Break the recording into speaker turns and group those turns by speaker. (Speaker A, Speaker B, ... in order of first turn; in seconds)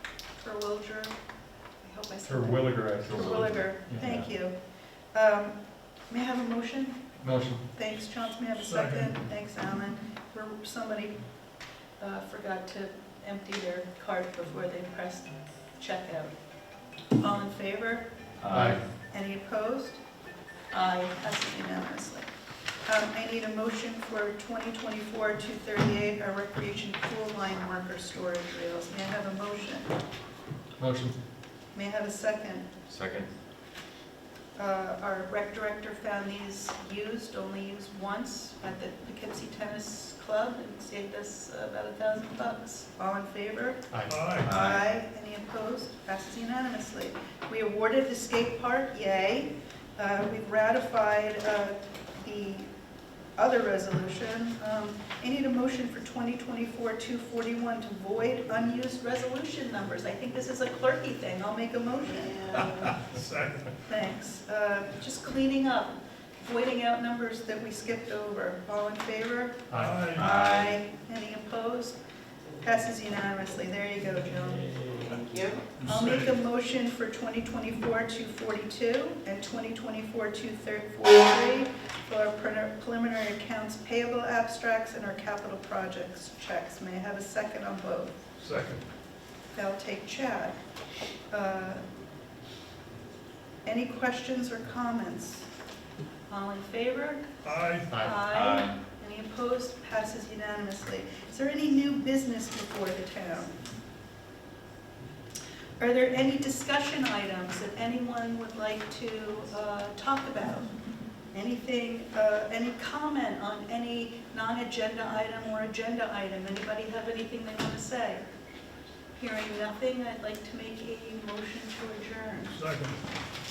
Speaker A: 0.3-1.1, 1.8-4.6, 5.1-7.1, 7.7-11.2, 12.0-16.3, 17.1-18.1, 19.1-20.0, 20.7-22.3, 22.8-29.9, 31.7-32.7, 34.5-52.7, 53.4-62.9, 63.9-72.0, 72.6-75.2, 75.8-88.2, 89.5-90.6, 91.3-91.8, 93.6-95.5, 96.3-97.4, 97.9-103.5, 105.8-110.7, 111.3-118.2, 119.1-122.5
Speaker B: 2.5-4.3, 18.4-18.8, 32.9-33.3, 44.4-44.8, 70.2-70.8, 98.3-98.8
Speaker C: 3.9-4.1, 7.2-7.6, 18.5-18.8, 30.8-31.1, 69.7-70.1, 97.9-98.2
Speaker D: 8.6-9.2, 44.1-44.5, 63.0-63.7, 69.7-70.3, 75.8-76.3, 88.4-88.8, 97.4-97.9, 122.5-123.0